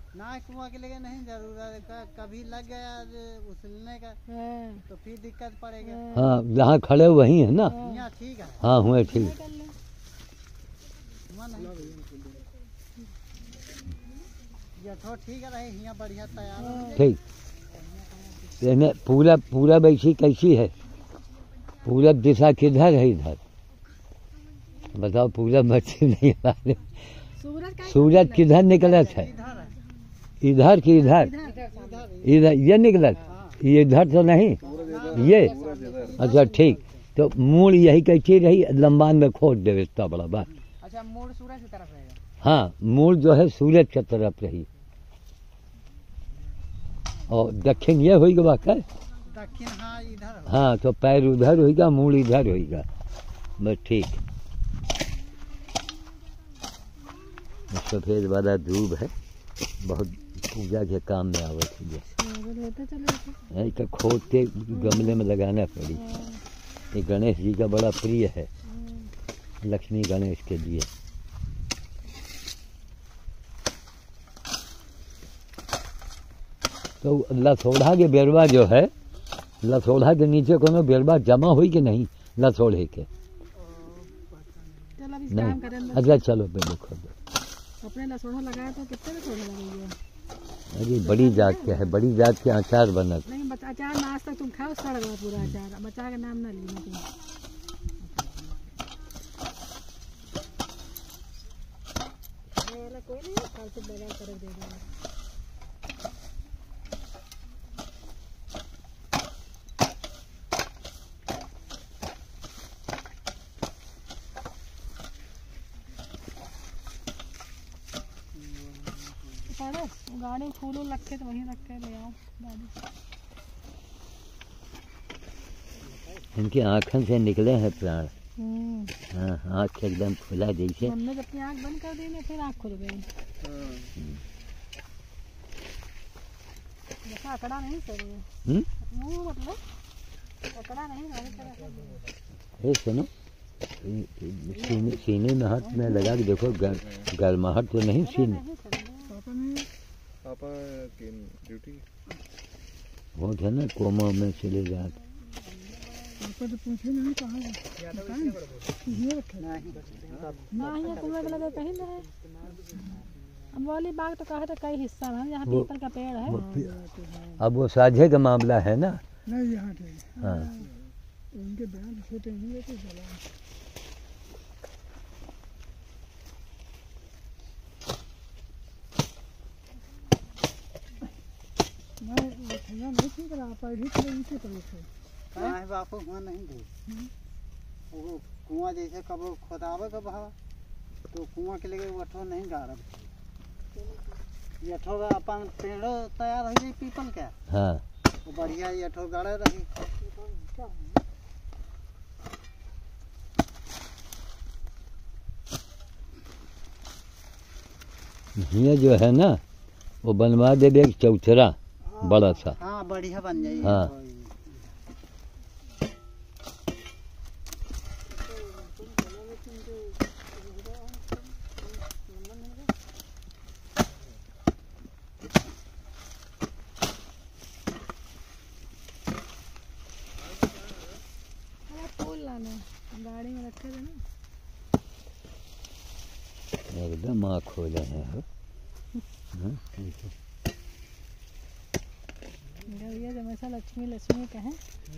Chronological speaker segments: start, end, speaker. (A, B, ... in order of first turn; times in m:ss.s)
0:00.1-0:04.2 A
0:04.3-0:04.8 B
0:04.9-0:06.0 A
0:05.8-0:06.3 B
0:06.1-0:07.8 C
0:07.7-0:08.0 B
0:07.8-0:08.6 A
0:08.6-0:09.4 C
0:08.9-0:09.7 B
0:11.3-0:12.0 A
0:14.8-0:17.1 A
0:16.6-0:17.0 B
0:17.0-0:17.2 C
0:18.6-0:20.8 C
0:21.8-0:23.4 C
0:24.9-0:27.0 C
0:27.4-0:28.5 B
0:27.8-0:29.3 C
0:28.7-0:29.8 A
0:30.4-0:31.3 C
0:31.0-0:31.6 B
0:31.5-0:32.1 D
0:31.7-0:32.4 A
0:32.2-0:35.6 C
0:33.3-0:33.6 A
0:34.6-0:36.2 E
0:34.6-0:37.0 A
0:36.2-0:40.5 C
0:40.8-0:42.2 D
0:42.4-0:44.7 C
0:47.3-0:48.8 C
0:49.3-0:50.6 A
0:50.5-0:52.9 C
0:53.6-0:54.2 C
0:57.7-0:59.1 C
0:59.8-1:02.1 C
1:02.2-1:03.4 B
1:03.5-1:06.0 C
1:04.7-1:05.2 B
1:05.9-1:06.4 B
1:06.9-1:08.5 C
1:08.6-1:09.1 B
1:09.6-1:10.9 C
1:17.0-1:18.9 C
1:19.6-1:23.1 C
1:25.0-1:26.2 B
1:25.3-1:27.1 C
1:27.8-1:30.0 B
1:30.7-1:33.3 C
1:31.0-1:31.9 B
1:33.3-1:37.1 B
1:42.6-1:44.9 B
1:59.5-2:02.8 B
2:06.3-2:08.1 C
2:08.4-2:08.9 B
2:09.1-2:11.0 C
2:10.8-2:13.1 B
2:17.0-2:18.3 B
2:18.9-2:19.6 B
2:20.5-2:22.0 B
2:22.6-2:23.1 C
2:23.8-2:28.4 C
2:28.0-2:29.2 B
2:30.2-2:31.8 E
2:33.2-2:35.0 C
2:37.9-2:38.4 D
2:39.4-2:41.5 A
2:40.5-2:42.1 B
2:42.2-2:42.5 D
2:43.5-2:46.4 B
2:46.3-2:46.8 C
2:47.4-2:49.0 C
2:50.2-2:50.5 C
3:05.3-3:06.7 A
3:07.9-3:10.3 A
3:11.1-3:13.1 A
3:14.6-3:17.4 A
3:17.5-3:17.8 C
3:18.2-3:19.7 A
3:28.4-3:29.4 C
3:30.0-3:32.6 C
3:32.0-3:34.7 A
3:33.6-3:33.9 C
3:51.7-3:54.0 B
3:56.7-3:58.2 C
3:59.3-4:00.1 C
4:02.7-4:04.6 B